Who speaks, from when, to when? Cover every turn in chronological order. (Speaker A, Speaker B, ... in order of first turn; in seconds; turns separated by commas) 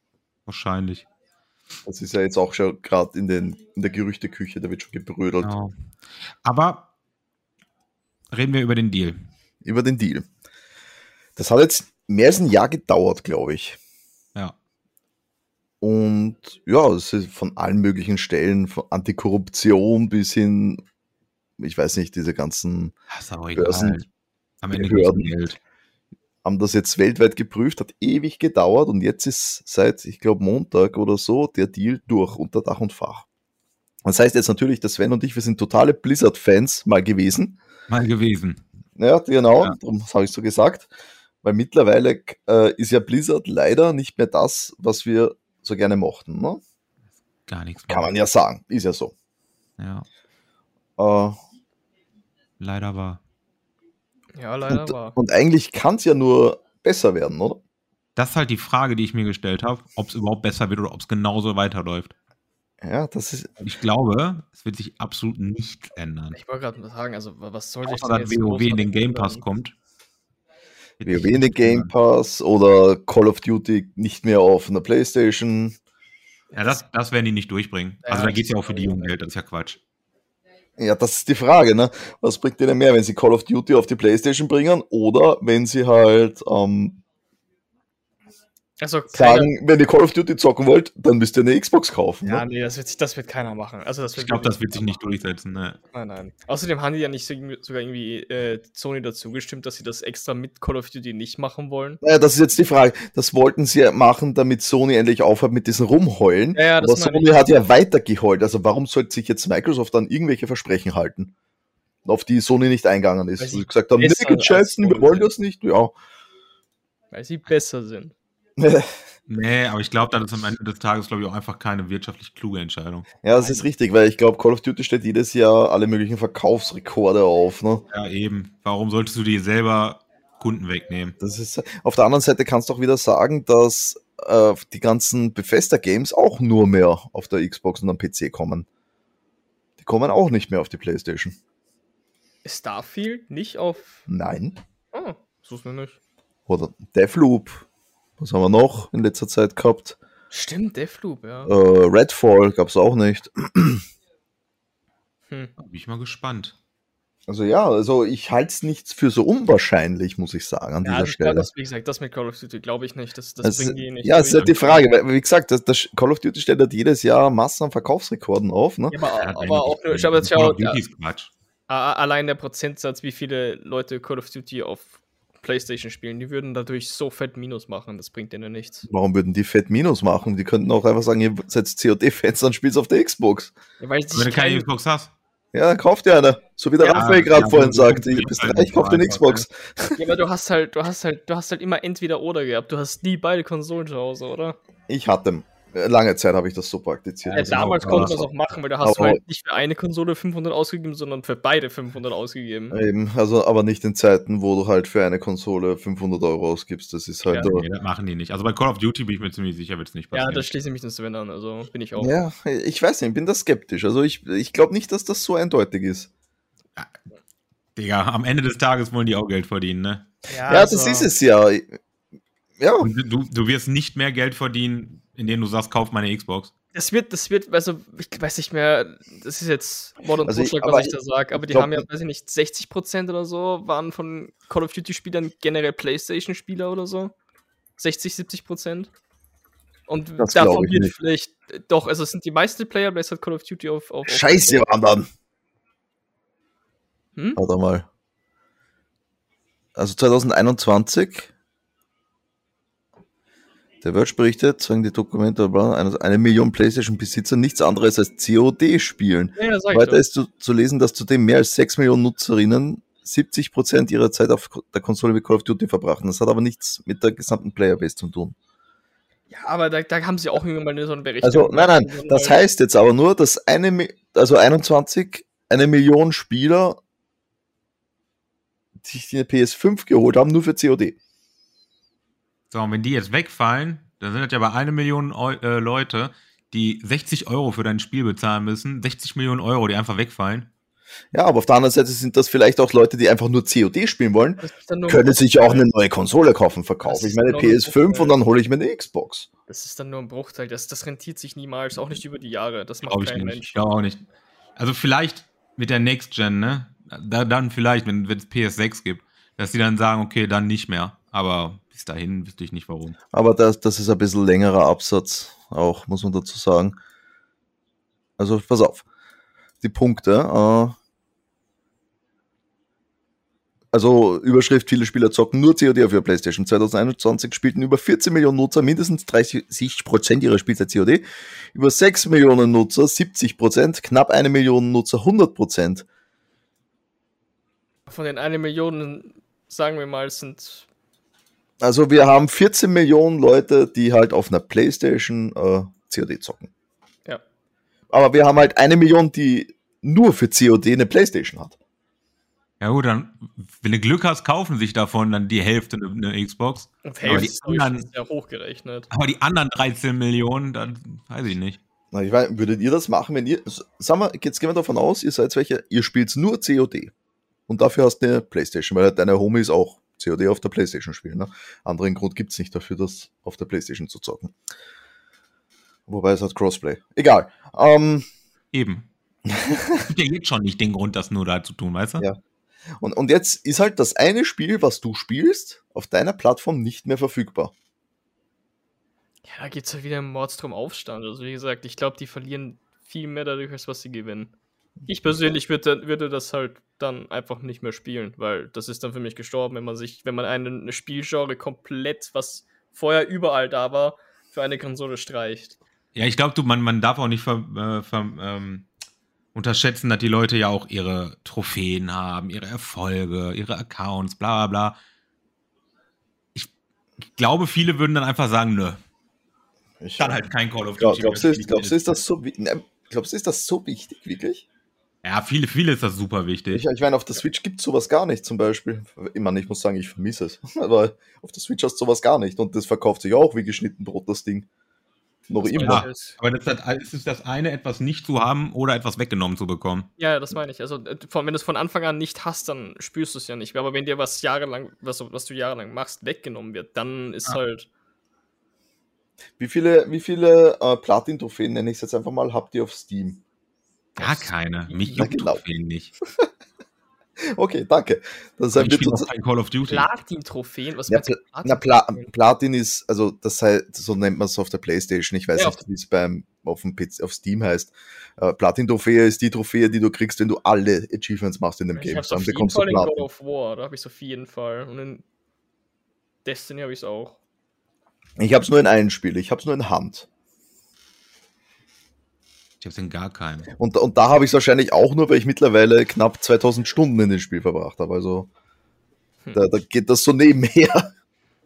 Speaker A: 0.5-1.1, Speaker B: 1.9-5.5, Speaker A: 5.4-5.7, Speaker A: 6.3-6.9, Speaker A: 8.3-9.3, Speaker B: 9.6-10.3, Speaker B: 11.4-13.8, Speaker B: 15.8-20.8, Speaker B: 21.6-22.9, Speaker A: 23.1-24.1, Speaker B: 23.6-24.0, Speaker A: 24.6-25.6, Speaker B: 24.7-25.4, Speaker B: 26.4-33.3, Speaker B: 34.0-37.6, Speaker A: 37.9-38.6, Speaker B: 39.0-40.9, Speaker B: 41.4-46.6, Speaker A: 47.5-48.1, Speaker B: 47.9-49.1, Speaker A: 49.8-50.1, Speaker B: 51.0-51.4, Speaker A: 52.6-53.2, Speaker C: 54.4-55.2, Speaker B: 54.7-57.6, Speaker A: 58.2-62.1, Speaker B: 62.8-63.5, Speaker A: 63.6-66.4, Speaker C: 66.4-69.4, Speaker A: 67.8-69.8, Speaker A: 71.0-71.9, Speaker B: 71.0-75.8, Speaker A: 76.5-79.8, Speaker C: 78.1-79.1, Speaker B: 80.8-87.0, Speaker C: 88.8-89.5, Speaker B: 89.1-92.5, Speaker C: 92.3-95.0, Speaker A: 94.1-95.8, Speaker C: 95.9-102.0, Speaker B: 102.0-111.3, Speaker C: 106.5-107.5, Speaker B: 112.0-115.9, Speaker C: 113.4-115.3, Speaker C: 117.1-118.1, Speaker B: 118.6-118.9, Speaker A: 119.3-123.1, Speaker B: 123.2-127.8, Speaker C: 123.4-123.6, Speaker A: 127.9-131.2, Speaker B: 131.2-138.7, Speaker B: 139.8-141.4, Speaker C: 142.4-144.0, Speaker B: 144.1-144.6, Speaker C: 144.9-146.0, Speaker B: 146.5-147.7, Speaker B: 148.2-150.0, Speaker C: 150.3-151.5, Speaker B: 151.5-153.8, Speaker A: 155.6-156.6, Speaker B: 157.3-161.5, Speaker C: 160.8-164.8, Speaker B: 163.4-169.0, Speaker C: 168.9-170.8, Speaker A: 169.2-171.3, Speaker C: 171.7-178.9, Speaker B: 178.9-183.5, Speaker C: 183.8-184.7, Speaker A: 184.1-185.1, Speaker B: 185.5-190.0, Speaker A: 186.8-189.4, Speaker C: 186.8-187.1, Speaker C: 190.0-194.6, Speaker B: 194.9-198.3, Speaker C: 197.3-202.8, Speaker A: 197.3-198.2, Speaker B: 198.8-199.2, Speaker B: 202.7-207.7, Speaker A: 207.4-210.5, Speaker C: 210.1-212.2, Speaker B: 212.0-216.1, Speaker A: 217.8-220.1, Speaker C: 220.3-221.1, Speaker B: 220.5-221.8, Speaker B: 222.6-222.9, Speaker A: 222.8-226.5, Speaker C: 226.7-237.1, Speaker B: 230.2-231.9, Speaker C: 237.8-238.9, Speaker C: 239.9-244.6, Speaker B: 240.2-240.9, Speaker B: 244.1-245.1, Speaker B: 247.4-247.9, Speaker B: 249.8-251.3, Speaker B: 253.8-268.4, Speaker C: 259.4-260.0, Speaker C: 269.3-272.4, Speaker B: 271.2-276.8, Speaker B: 278.8-281.0, Speaker A: 282.5-290.5, Speaker B: 291.1-299.3, Speaker C: 294.4-295.7, Speaker C: 296.8-298.2, Speaker C: 299.5-303.6, Speaker A: 302.9-304.1, Speaker A: 304.6-313.0, Speaker B: 313.1-316.8, Speaker B: 318.2-318.9, Speaker B: 319.6-320.8, Speaker B: 323.7-335.9, Speaker C: 337.9-340.7, Speaker B: 341.6-346.5, Speaker B: 347.9-351.6, Speaker A: 352.6-357.9, Speaker C: 356.9-358.9, Speaker A: 358.9-361.6, Speaker B: 361.9-366.9, Speaker B: 367.5-374.4, Speaker B: 375.9-378.1, Speaker A: 378.5-378.9, Speaker B: 379.3-379.9, Speaker A: 379.8-382.1, Speaker B: 382.8-387.5, Speaker C: 389.2-394.3, Speaker C: 394.9-405.6, Speaker A: 405.9-408.7, Speaker A: 409.4-414.8, Speaker A: 417.1-418.8, Speaker B: 419.8-420.2, Speaker A: 420.0-421.9, Speaker B: 420.8-424.5, Speaker A: 425.0-426.6, Speaker B: 426.5-434.5, Speaker B: 435.3-435.9, Speaker C: 435.4-436.2, Speaker A: 435.6-439.9, Speaker C: 440.0-447.7, Speaker B: 449.4-453.2, Speaker C: 454.0-455.1, Speaker A: 454.0-455.9, Speaker B: 455.0-455.4, Speaker B: 457.3-459.1, Speaker A: 458.5-459.9, Speaker C: 459.7-462.1, Speaker B: 460.9-473.1, Speaker C: 471.8-475.0, Speaker C: 476.2-477.2, Speaker B: 478.2-480.1, Speaker A: 482.6-483.5, Speaker B: 483.6-488.3, Speaker B: 489.3-490.9